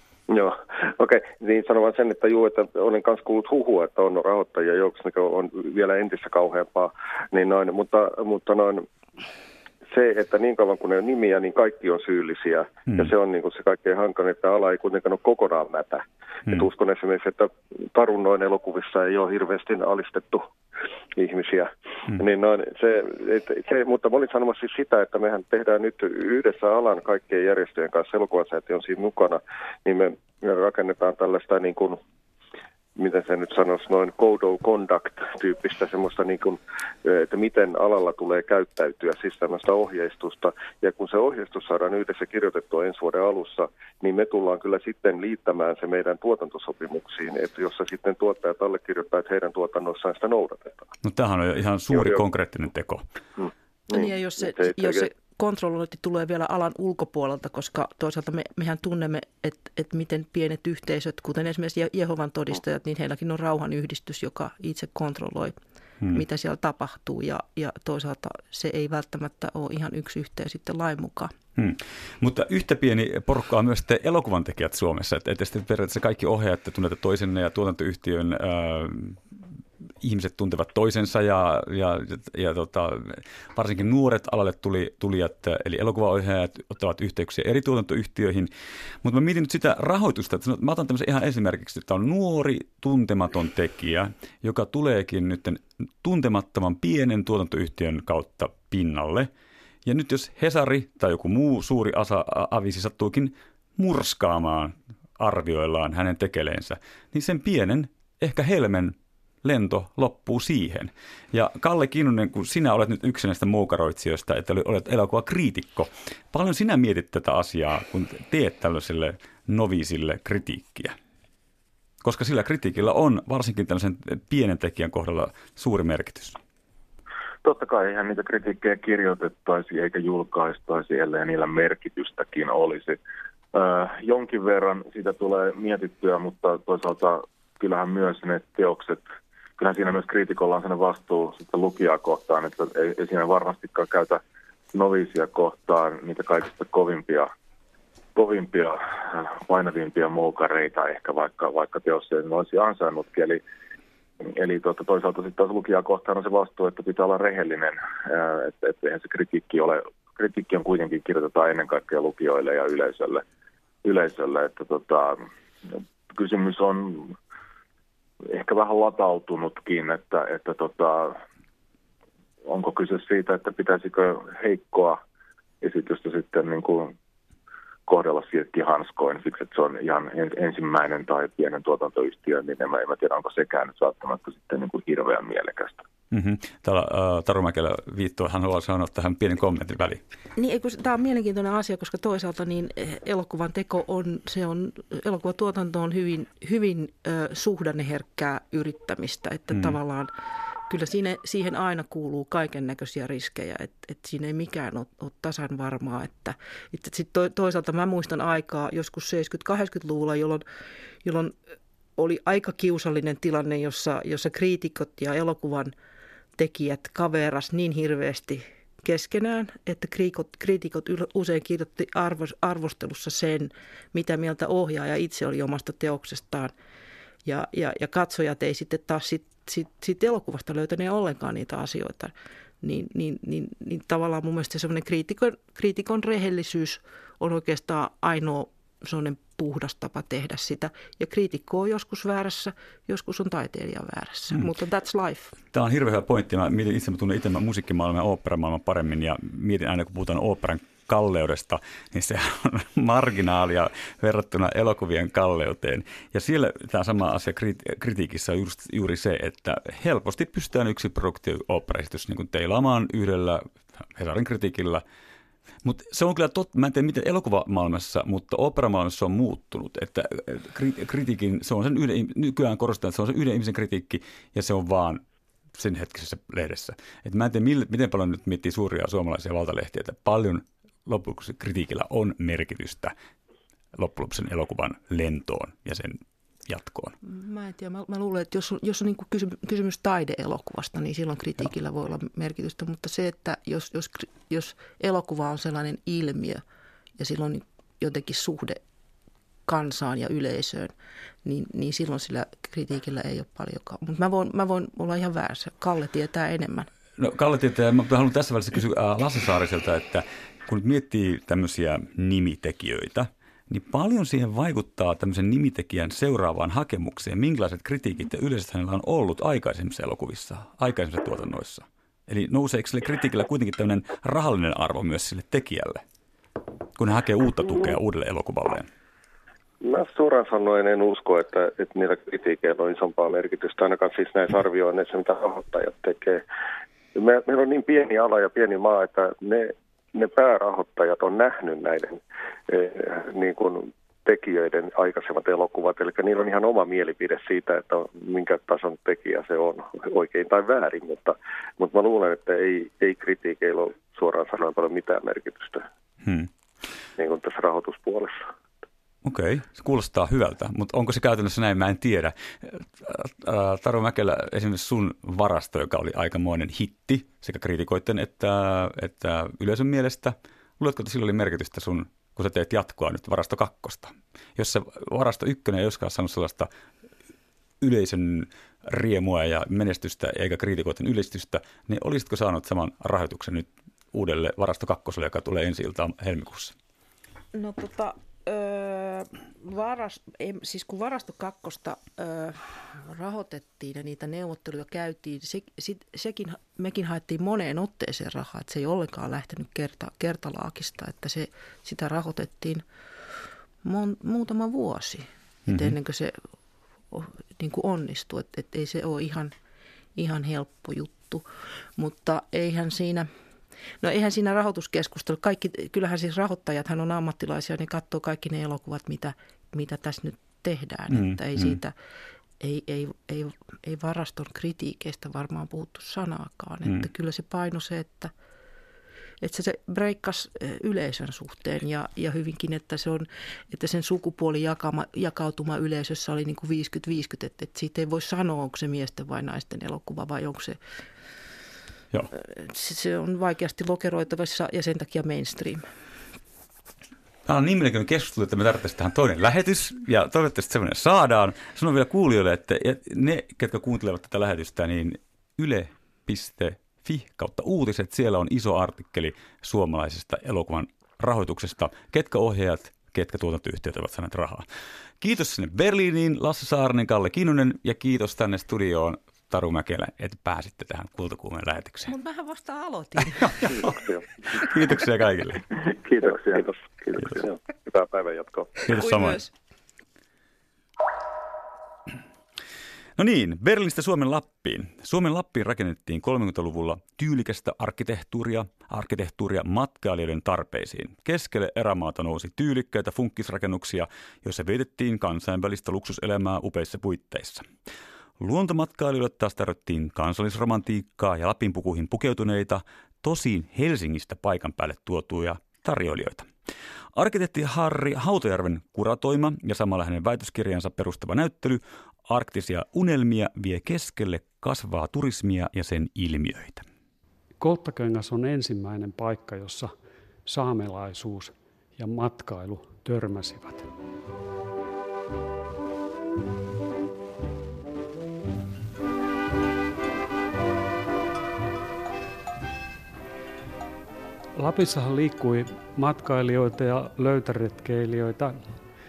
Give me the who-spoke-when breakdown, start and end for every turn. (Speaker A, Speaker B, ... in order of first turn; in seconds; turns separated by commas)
Speaker A: 0.3-8.8, Speaker A: 9.9-20.5, Speaker A: 21.1-32.0, Speaker A: 33.0-50.9, Speaker B: 51.0-53.0, Speaker A: 51.9-52.2, Speaker A: 53.4-55.0, Speaker C: 53.9-65.5, Speaker C: 66.1-71.3, Speaker B: 71.6-79.2, Speaker B: 80.0-88.5, Speaker B: 89.0-99.3, Speaker B: 99.8-120.9, Speaker B: 122.0-126.4, Speaker D: 127.4-133.0, Speaker D: 133.5-139.0, Speaker D: 139.6-144.2, Speaker D: 144.7-147.3, Speaker D: 148.2-153.4, Speaker D: 154.3-163.2, Speaker D: 163.8-165.2, Speaker D: 166.1-167.2, Speaker D: 168.3-171.2, Speaker D: 172.4-175.0, Speaker D: 175.6-176.9, Speaker D: 177.9-185.8, Speaker B: 186.1-190.0, Speaker C: 190.3-200.1, Speaker C: 200.7-210.4, Speaker C: 211.0-211.3, Speaker C: 212.0-215.7, Speaker C: 216.3-226.5, Speaker C: 227.2-245.3, Speaker B: 245.5-263.4, Speaker B: 263.9-264.8, Speaker B: 265.6-275.0, Speaker B: 275.6-282.9, Speaker B: 283.7-286.9, Speaker C: 287.0-296.4, Speaker C: 297.0-298.6, Speaker C: 299.5-300.7, Speaker C: 301.2-306.7, Speaker B: 307.0-325.8, Speaker B: 326.8-328.7, Speaker A: 329.6-336.2, Speaker A: 336.9-355.6, Speaker B: 356.0-356.3, Speaker A: 357.0-358.2, Speaker B: 359.0-376.5, Speaker B: 377.6-386.5, Speaker C: 387.3-402.6, Speaker C: 403.6-406.1, Speaker B: 405.5-405.7, Speaker C: 406.9-409.3, Speaker C: 409.9-411.2, Speaker C: 411.8-413.1, Speaker C: 413.8-421.7, Speaker B: 420.9-421.6, Speaker C: 422.4-428.1, Speaker C: 429.2-440.6, Speaker C: 442.2-445.6, Speaker B: 447.2-464.4, Speaker B: 465.0-471.9, Speaker C: 471.9-473.8, Speaker B: 473.2-473.7, Speaker B: 474.3-475.4, Speaker D: 475.6-477.2, Speaker A: 477.7-478.5, Speaker B: 478.6-479.2, Speaker C: 478.7-479.3, Speaker B: 483.0-497.4, Speaker B: 498.2-506.3, Speaker B: 506.9-516.6, Speaker E: 517.4-519.7, Speaker E: 520.2-523.7, Speaker E: 534.4-538.3